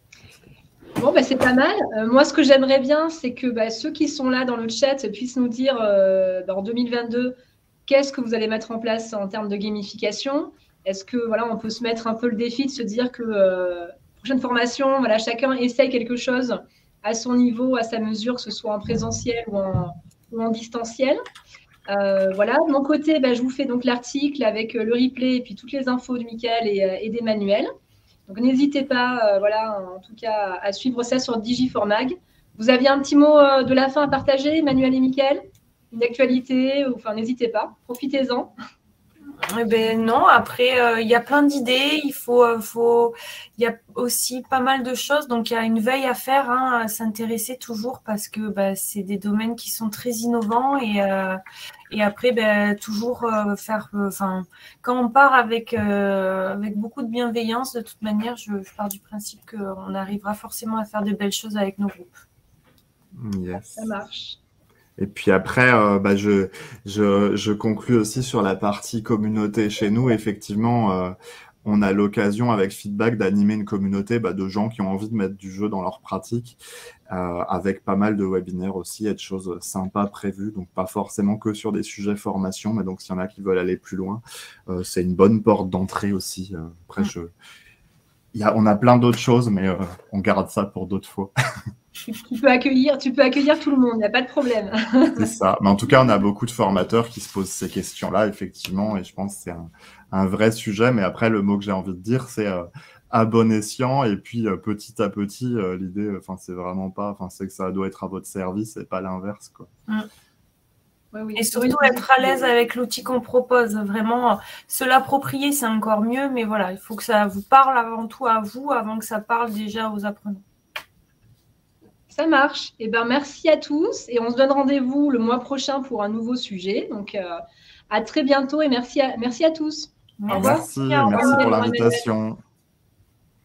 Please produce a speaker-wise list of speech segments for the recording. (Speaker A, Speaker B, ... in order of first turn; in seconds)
Speaker A: 1.0-21.2, 21.9-27.7, 28.3-38.5, 63.8-64.4, 92.0-95.3, 111.1-112.3, 122.1-132.0
Speaker B: 39.4-62.2, 111.3-120.4, 130.2-131.8
Speaker C: 63.1-63.9, 65.0-76.6, 77.1-87.3, 88.3-91.3, 95.2-109.7, 130.3-132.4